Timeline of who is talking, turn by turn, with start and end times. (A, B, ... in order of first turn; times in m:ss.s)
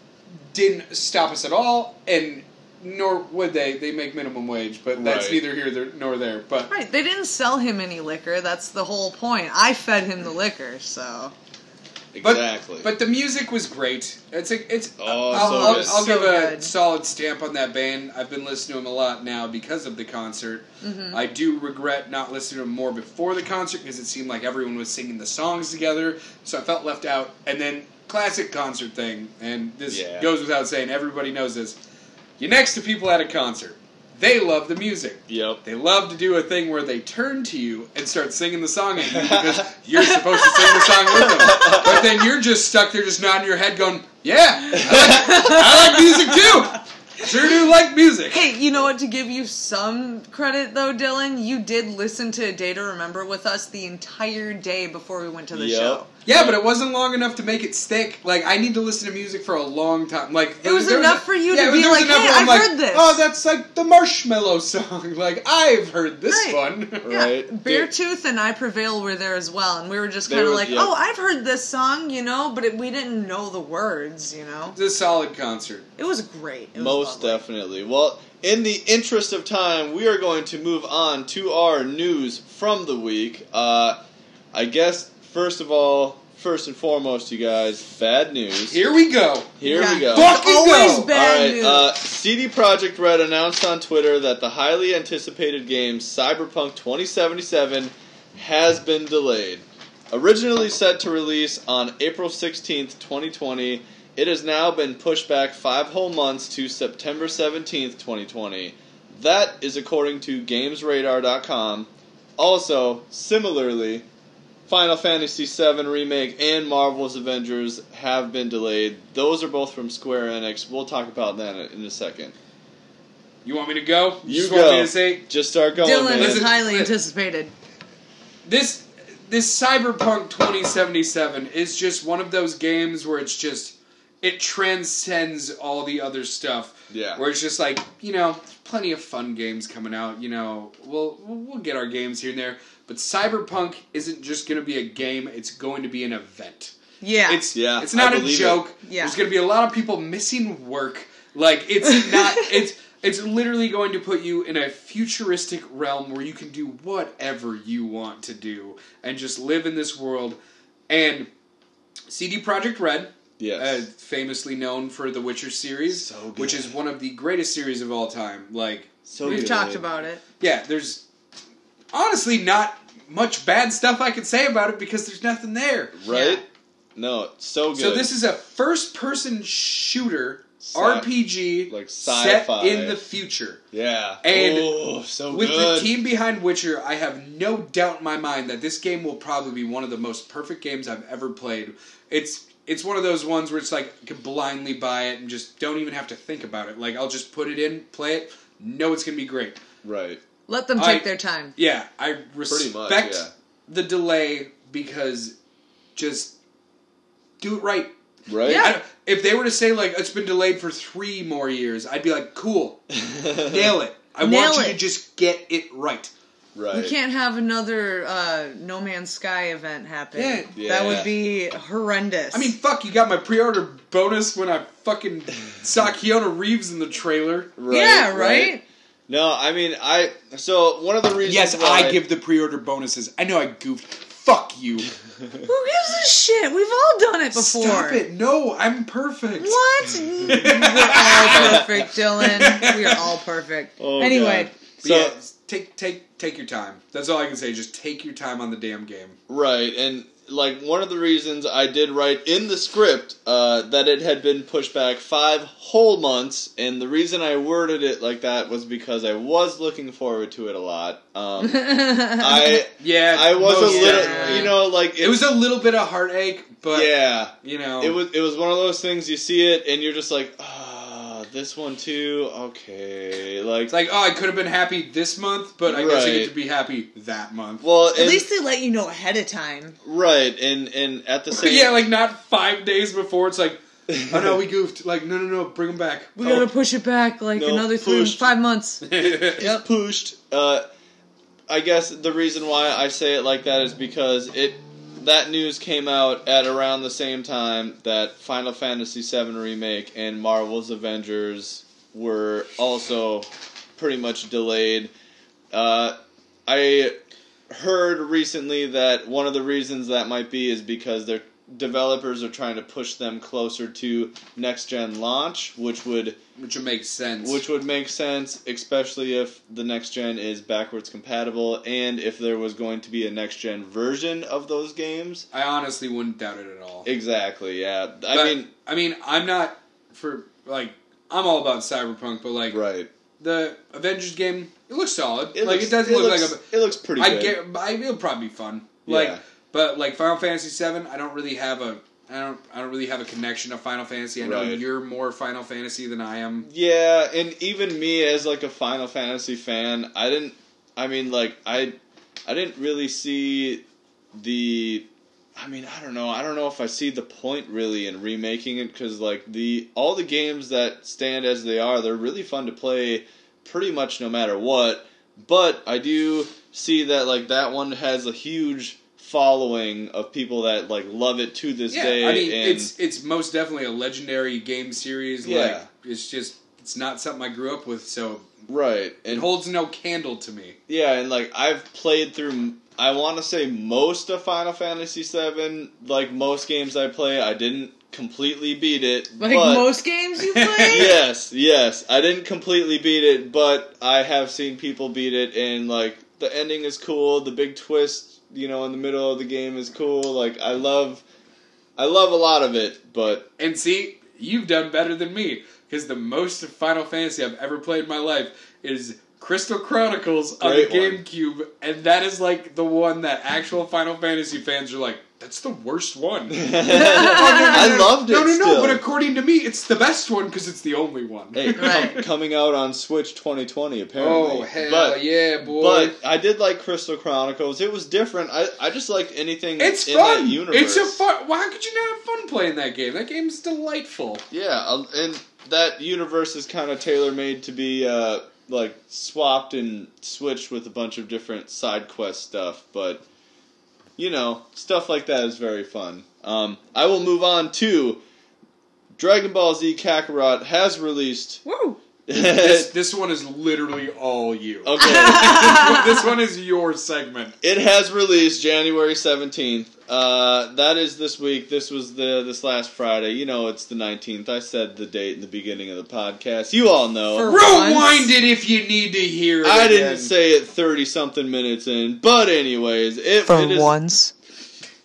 0:00.5-0:06.7 A
0:04.9-0:05.4 B
0:06.7-0:11.3 C
0:12.1-0:12.9 B
0:12.2-0:31.8 A
0:15.0-0:16.0 B
0:15.3-0:16.7 C
0:20.8-0:21.2 C
0:29.9-0:30.3 B
0:32.4-0:48.5 A
0:35.3-0:35.6 B
0:39.0-0:39.7 B
0:40.0-0:42.0 C
0:41.1-0:42.1 B
0:44.7-0:45.3 B
0:44.8-0:46.6 C
0:48.3-0:56.1 C
0:55.5-0:56.6 B
0:56.2-1:07.1 A
1:00.6-1:03.2 C
1:06.3-1:14.8 C
1:07.0-1:07.9 B
1:10.3-1:10.9 B
1:14.8-1:15.9 A
1:16.0-1:17.4 C
1:16.8-1:24.0 B
1:24.5-1:28.8 B
1:28.7-1:31.1 A
1:29.6-1:30.4 B
1:29.6-1:31.9 C
1:31.1-1:54.0 B
1:54.7-2:02.3 B
2:03.4-2:05.2 A
2:04.2-2:06.6 B
2:05.8-2:07.5 C
2:06.2-2:06.9 A
2:08.4-2:26.7 A
2:16.9-2:17.2 B
2:27.0-2:27.4 C
2:27.3-2:40.4 A
2:27.5-2:28.6 B
2:28.8-2:29.2 C
2:40.9-2:41.3 A
2:42.1-2:49.7 A
2:43.4-2:43.9 B
2:45.9-2:46.7 B
2:49.1-2:49.9 B
2:49.2-2:50.2 C
2:50.4-2:51.0 A
2:51.9-2:56.0 A
2:56.0-2:56.4 B
2:56.1-2:56.4 C
2:57.0-2:58.1 B
2:57.8-3:03.6 A
3:00.6-3:01.1 B
3:01.7-3:03.0 B
3:03.7-3:06.0 B
3:04.2-3:19.6 A
3:19.8-3:20.2 B
3:20.5-3:21.5 C
3:20.8-3:25.4 A
3:22.5-3:23.3 B
3:26.0-3:26.4 A
3:27.4-3:27.9 A
3:28.3-3:28.7 B
3:28.4-3:28.8 C
3:28.5-3:36.1 A
3:33.0-3:33.8 B
3:34.2-3:34.8 C
3:36.6-3:37.0 B
3:36.7-3:42.5 C
3:40.1-3:40.5 A
3:40.6-3:41.1 B
3:42.3-3:47.5 A
3:47.6-3:48.5 B
3:47.7-3:48.6 C
3:49.1-3:52.0 B
3:51.2-3:54.9 A
3:55.4-3:58.0 C
3:57.3-3:59.6 A
3:59.4-4:04.5 C
4:00.3-4:03.0 A
4:01.3-4:01.8 B
4:03.8-4:05.2 B
4:04.8-4:09.2 A
4:09.3-4:25.3 B
4:21.4-4:22.6 C
4:22.8-4:28.0 A
4:23.6-4:24.5 C
4:26.7-4:33.7 B
4:33.7-4:37.6 A
4:35.7-4:36.3 B
4:37.6-4:38.3 B
4:37.9-4:39.8 C
4:39.8-4:41.8 B
4:41.4-4:46.2 A
4:43.9-4:44.4 B
4:46.2-4:48.9 C
4:46.2-4:46.5 B
4:47.4-4:48.3 B
4:48.8-4:49.4 A
4:49.3-4:50.6 B
4:49.4-4:49.6 C
4:51.5-5:04.9 B
5:05.5-5:07.0 B
5:07.5-5:16.2 B
5:16.4-5:17.4 A
5:17.2-5:25.3 B
5:25.3-5:26.9 A
5:26.9-5:28.5 B
5:28.1-5:32.6 A
5:32.5-5:32.9 B
5:33.2-5:36.4 A
5:35.3-5:37.4 B
5:37.0-5:46.5 A
5:38.9-5:39.2 B
5:44.2-5:44.6 B
5:46.4-6:12.7 B
6:11.7-6:18.3 A
6:15.2-6:15.7 B
6:18.5-6:19.3 B
6:19.1-6:20.6 A
6:20.7-6:29.8 B
6:29.2-6:31.0 C
6:30.2-6:31.0 A
6:30.7-6:41.0 B
6:41.8-6:43.3 B
6:43.4-7:02.0 A
6:50.4-6:51.0 B
6:56.3-6:58.8 B
6:56.7-6:57.6 C
7:01.3-7:11.0 B
7:01.6-7:02.0 C
7:04.0-7:05.9 A
7:09.6-7:14.2 A
7:14.3-7:23.0 B
7:24.0-7:28.0 B
7:29.0-7:31.4 B
7:31.4-7:31.8 C
7:32.1-7:32.7 B
7:32.1-7:37.4 A
7:34.6-7:35.8 B
7:34.8-7:35.8 C
7:37.4-7:47.3 B
7:47.1-7:48.1 C
7:47.3-7:50.1 A
7:49.4-7:53.8 B
7:53.3-7:54.1 C